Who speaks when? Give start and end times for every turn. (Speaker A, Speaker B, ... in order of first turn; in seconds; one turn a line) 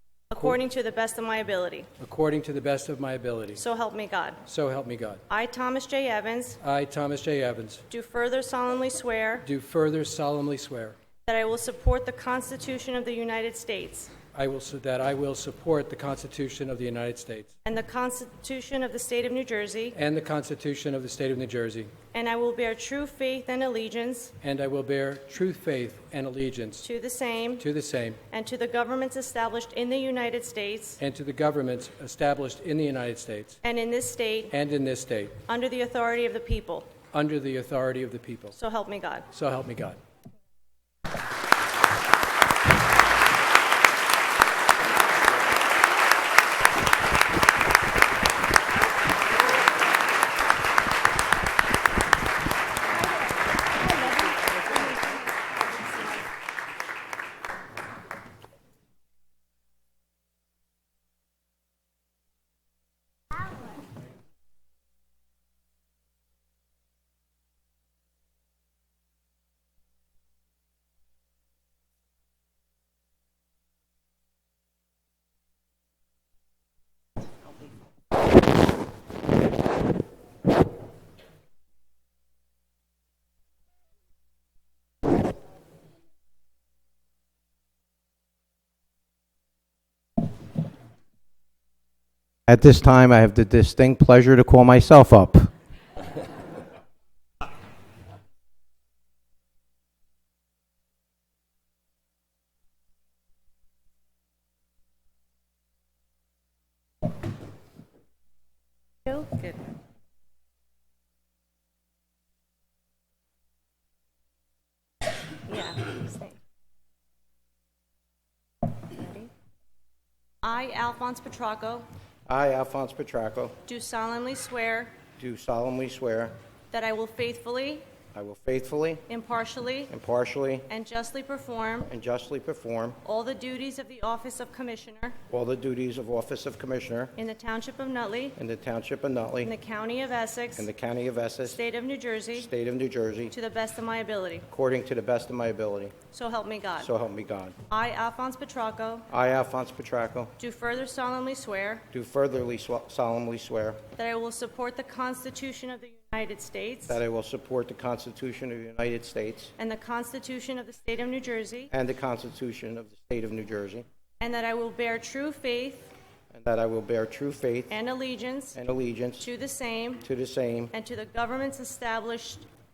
Speaker A: 0.3-1.9
Speaker B: 2.0-3.6
Speaker A: 3.5-4.4
Speaker B: 4.5-5.2
Speaker A: 5.3-6.6
Speaker B: 6.6-7.8
Speaker A: 7.9-9.4
Speaker B: 9.4-10.9
Speaker A: 11.2-14.1
Speaker B: 14.3-17.5
Speaker A: 17.6-20.0
Speaker B: 19.9-21.9
Speaker A: 22.1-24.3
Speaker B: 24.4-26.9
Speaker A: 26.8-27.6
Speaker B: 27.6-28.2
Speaker A: 28.3-31.0
Speaker B: 31.0-33.6
Speaker A: 33.6-34.5
Speaker B: 34.5-35.4
Speaker A: 35.5-36.9
Speaker B: 37.1-38.5
Speaker A: 38.5-39.3
Speaker B: 39.3-40.0
Speaker C: 92.5-95.5
Speaker A: 109.0-109.6
Speaker A: 115.4-116.3
Speaker A: 118.9-119.3
Speaker A: 120.4-121.9
Speaker C: 122.3-123.6
Speaker A: 123.7-124.9
Speaker C: 125.2-126.3
Speaker A: 126.7-127.8
Speaker C: 128.1-129.0
Speaker A: 129.1-129.9
Speaker C: 129.9-130.7
Speaker A: 130.7-131.9
Speaker C: 131.9-133.0
Speaker A: 133.0-135.2
Speaker C: 135.3-137.1
Speaker A: 137.2-138.3
Speaker C: 138.3-139.5
Speaker A: 139.4-140.7
Speaker C: 140.6-141.6
Speaker A: 141.4-142.5
Speaker C: 142.3-143.3
Speaker A: 143.3-144.5
Speaker C: 144.5-145.9
Speaker A: 146.1-146.9
Speaker C: 146.8-147.6
Speaker A: 147.7-149.1
Speaker C: 149.1-150.3
Speaker A: 150.4-151.8
Speaker C: 151.9-153.8
Speaker A: 153.9-157.0
Speaker C: 156.9-159.5
Speaker A: 159.6-161.7
Speaker C: 161.7-163.8
Speaker A: 164.2-165.9
Speaker C: 166.3-167.8
Speaker A: 167.7-168.6
Speaker C: 168.5-169.3
Speaker A: 169.2-170.0
Speaker C: 170.0-170.7
Speaker A: 170.7-172.5